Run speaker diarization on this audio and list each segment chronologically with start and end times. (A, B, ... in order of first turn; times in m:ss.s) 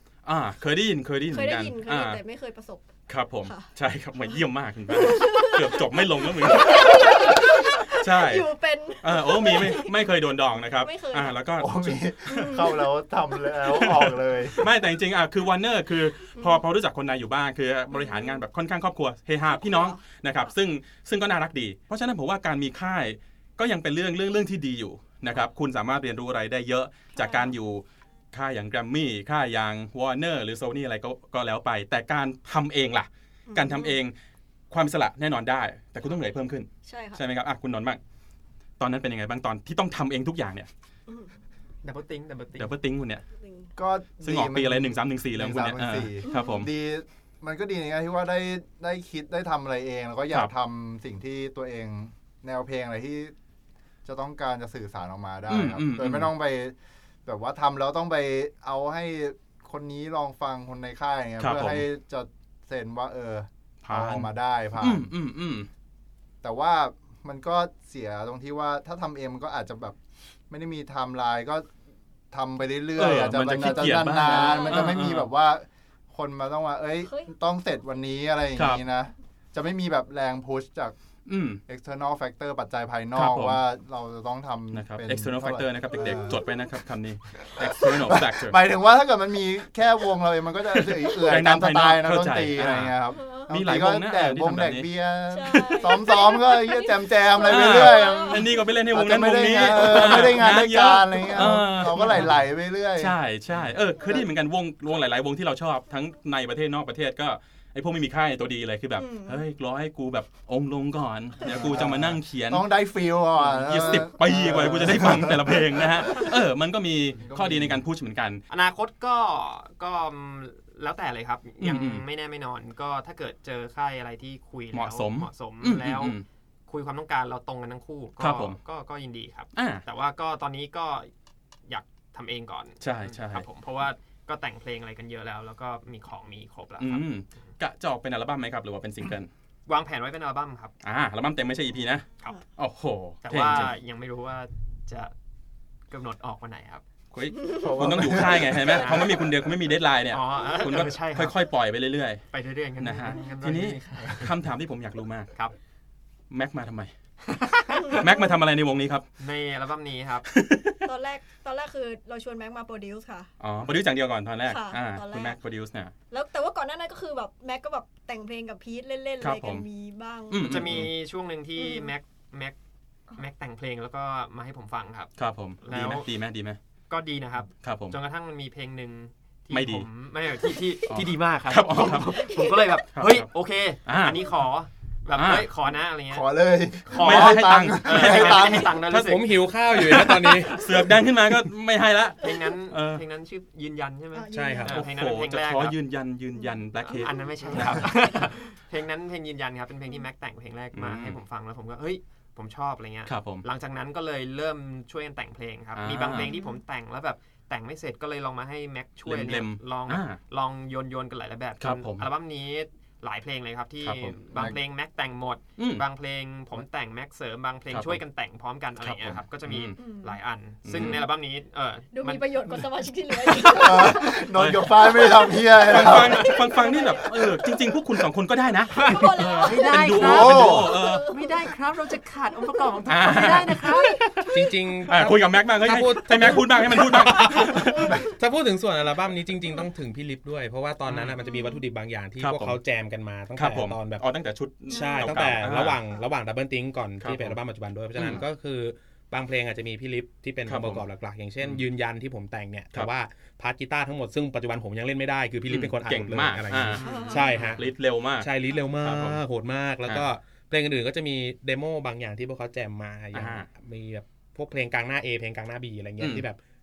0:00.2-0:02.2 A
0:01.3-0:02.9 B
0:03.1-0:08.5 A
0:03.4-0:03.7 B
0:04.9-0:09.9 B
0:09.0-0:12.5 A
0:10.8-0:11.4 B
0:11.6-0:14.6 C
0:12.3-0:12.9 B
0:13.7-0:34.1 A
0:16.4-0:16.6 B
0:17.9-0:18.4 B
0:19.5-0:20.4 B
0:27.1-0:27.5 B
0:33.5-0:34.0 B
0:34.7-0:38.0 A
0:36.8-0:37.2 B
0:38.8-0:40.7 A
0:41.8-0:42.7 D
0:42.6-0:43.2 A
0:43.4-0:43.7 B
0:43.8-0:53.3 C
0:44.2-0:46.7 A
0:46.2-0:46.7 B
0:54.0-1:05.1 C
0:55.5-0:56.3 A
1:01.4-1:01.8 A
1:03.8-1:04.3 A
1:04.8-1:05.7 A
1:06.4-1:10.0 C
1:10.5-1:11.7 C
1:12.3-1:20.9 C
1:13.0-1:15.3 A
1:13.6-1:15.0 B
1:17.0-1:17.3 B
1:18.6-1:18.8 A
1:21.3-1:21.6 A
1:21.7-1:26.4 C
1:23.1-1:23.6 A
1:24.7-1:28.6 A
1:26.0-1:26.3 B
1:27.8-1:43.2 C
1:30.8-1:33.0 A
1:33.2-1:33.5 B
1:33.5-1:34.9 A
1:35.3-1:38.6 B
1:37.4-1:42.4 A
1:39.8-1:40.2 B
1:43.0-1:52.6 A
1:49.0-1:49.4 B
1:51.4-1:56.2 C
1:53.4-1:58.4 A
1:57.2-1:57.8 C
1:58.5-2:11.1 D
2:01.6-2:02.0 A
2:04.7-2:06.2 A
2:08.2-2:08.6 A
2:09.6-2:09.8 A
2:11.7-2:17.5 D
2:12.8-2:13.4 A
2:16.8-2:19.3 A
2:19.7-2:20.8 D
2:20.8-2:23.7 A
2:23.2-2:25.1 D
2:25.9-2:26.8 D
2:27.1-2:32.2 A
2:27.5-2:28.9 C
2:28.6-2:29.1 D
2:30.1-2:31.3 D
2:32.3-2:34.3 D
2:32.8-2:35.3 A
2:36.3-2:36.9 A
2:37.3-2:38.0 D
2:37.8-2:39.0 A
2:37.8-2:38.4 B
2:39.2-2:40.3 D
2:40.3-2:40.8 A
2:40.8-2:43.3 B
2:43.4-2:45.9 A
2:44.4-2:45.4 B
2:46.1-2:50.8 B
2:49.2-2:49.7 A
2:50.3-2:50.9 A
2:50.4-2:52.6 D
2:51.6-2:51.9 B
2:53.2-2:56.1 D
2:55.2-2:56.6 A
2:56.9-3:06.3 D
2:57.6-2:58.0 A
2:59.5-2:59.8 A
3:00.9-3:02.3 A
3:02.2-3:02.7 B
3:02.9-3:03.3 A
3:03.8-3:04.2 A
3:05.1-3:05.4 A
3:06.1-3:08.8 C
3:06.8-3:10.4 D
3:07.0-3:13.0 A
3:09.0-3:10.6 E
3:12.2-3:15.8 D
3:14.1-3:14.8 B
3:14.3-3:14.8 E
3:14.6-3:17.9 A
3:16.4-3:17.9 B
3:16.9-3:42.6 D
3:20.7-3:21.2 A
3:23.0-3:23.4 A
3:25.8-3:26.3 A
3:26.2-3:26.6 B
3:29.0-3:30.2 A
3:31.6-3:32.1 A
3:33.8-3:34.5 A
3:35.6-3:35.8 A
3:37.7-3:38.0 A
3:38.8-3:39.8 A
3:39.8-3:40.2 B
3:40.6-3:41.1 A
3:40.8-3:41.0 B
3:41.9-3:44.3 B
3:43.2-3:44.0 D
3:43.4-3:46.3 C
3:44.3-3:45.0 A
3:45.5-3:51.1 A
3:45.8-3:47.4 B
3:45.9-3:46.3 D
3:48.7-3:54.0 D
3:48.8-3:51.4 B
3:50.1-3:50.7 C
3:52.8-3:54.4 A
3:53.7-3:54.0 B
3:54.3-4:04.0 E
3:54.9-3:58.0 A
4:00.9-4:01.2 A
4:01.2-4:01.6 B
4:02.2-4:02.6 A
4:03.4-4:05.8 A
4:04.7-4:17.6 E
4:04.7-4:05.2 B
4:07.0-4:07.4 A
4:08.0-4:08.2 A
4:10.4-4:10.8 A
4:11.4-4:11.6 A
4:15.5-4:17.0 A
4:16.8-4:17.6 D
4:16.8-4:17.6 B
4:17.5-4:19.2 A
4:18.2-4:26.4 E
4:23.1-4:23.5 A
4:26.0-4:26.2 A